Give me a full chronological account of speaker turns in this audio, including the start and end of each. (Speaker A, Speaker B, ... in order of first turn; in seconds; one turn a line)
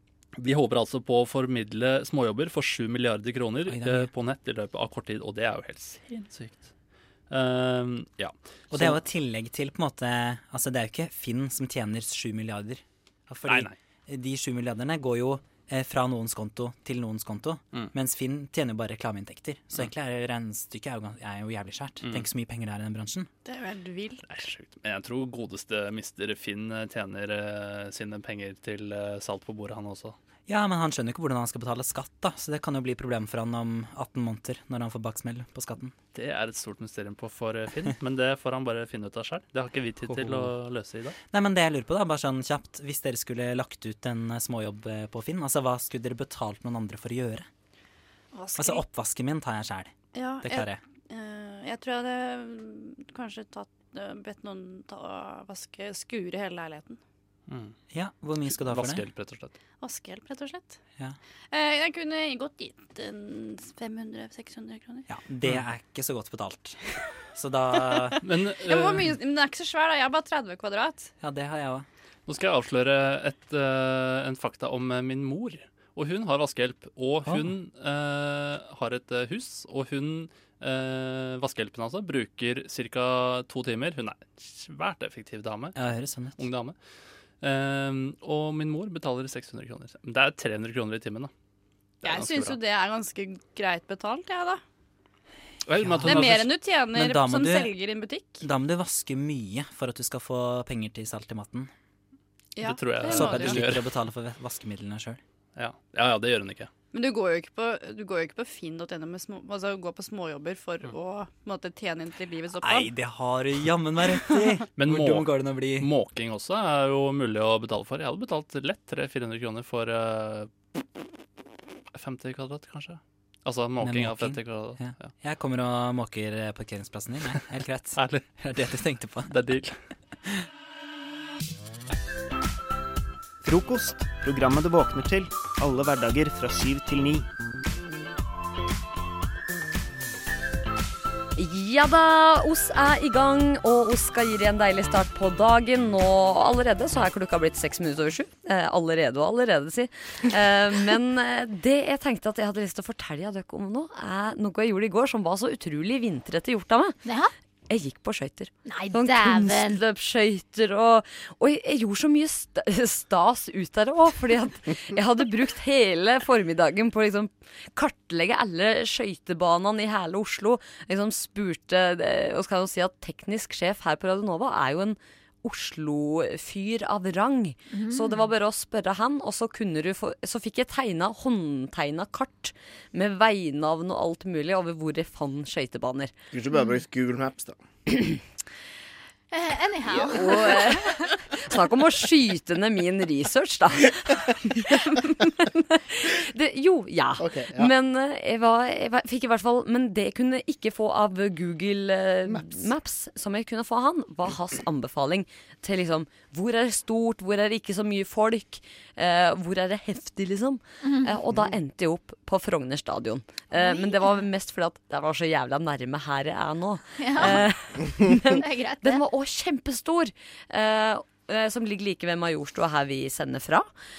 Speaker A: 0.4-6.7
Speaker B: 3.7-4.1
Speaker A: 7.3-9.0
Speaker B: 8.7-23.3
Speaker A: 13.4-13.7
Speaker A: 22.0-22.3
Speaker C: 23.4-24.3
Speaker A: 24.2-30.1
Speaker B: 30.5-35.9
Speaker A: 36.1-41.1
Speaker B: 40.0-40.5
Speaker B: 41.3-47.5
Speaker C: 48.3-48.8
Speaker B: 48.6-50.8
Speaker C: 50.1-57.0
Speaker A: 57.5-57.7
Speaker B: 57.9-59.1
Speaker A: 58.5-59.5
Speaker C: 59.8-60.8
Speaker C: 61.5-65.0
Speaker B: 65.1-66.8
Speaker B: 67.3-68.2
Speaker A: 68.2-69.2
Speaker C: 68.6-71.1
Speaker B: 71.2-71.8
Speaker A: 72.3-85.8
Speaker B: 77.2-77.5
Speaker B: 85.8-86.4
Speaker A: 86.4-86.8
Speaker A: 87.4-91.3
Speaker A: 92.0-92.6
Speaker C: 92.0-94.6
Speaker A: 95.7-96.6
Speaker B: 95.8-97.8
Speaker C: 96.0-98.4
Speaker B: 98.4-101.7
Speaker C: 102.5-103.6
Speaker A: 102.6-103.9
Speaker B: 103.0-105.2
Speaker A: 105.5-106.7
Speaker C: 106.9-112.9
Speaker B: 112.6-115.9
Speaker A: 114.7-120.5
Speaker A: 121.9-125.1
Speaker B: 123.8-129.3
Speaker A: 127.9-128.3
Speaker A: 129.3-129.8
Speaker D: 133.4-137.2
Speaker E: 141.4-157.0
Speaker F: 157.0-157.3
Speaker E: 157.7-186.1
Speaker F: 158.7-159.8
Speaker F: 177.7-178.3
Speaker G: 186.3-187.6
Speaker F: 189.3-190.7
Speaker E: 190.1-223.7
Speaker G: 197.2-197.7
Speaker G: 202.3-202.6
Speaker F: 210.8-211.2
Speaker F: 213.5-214.2
Speaker F: 217.0-217.5
Speaker F: 218.2-219.0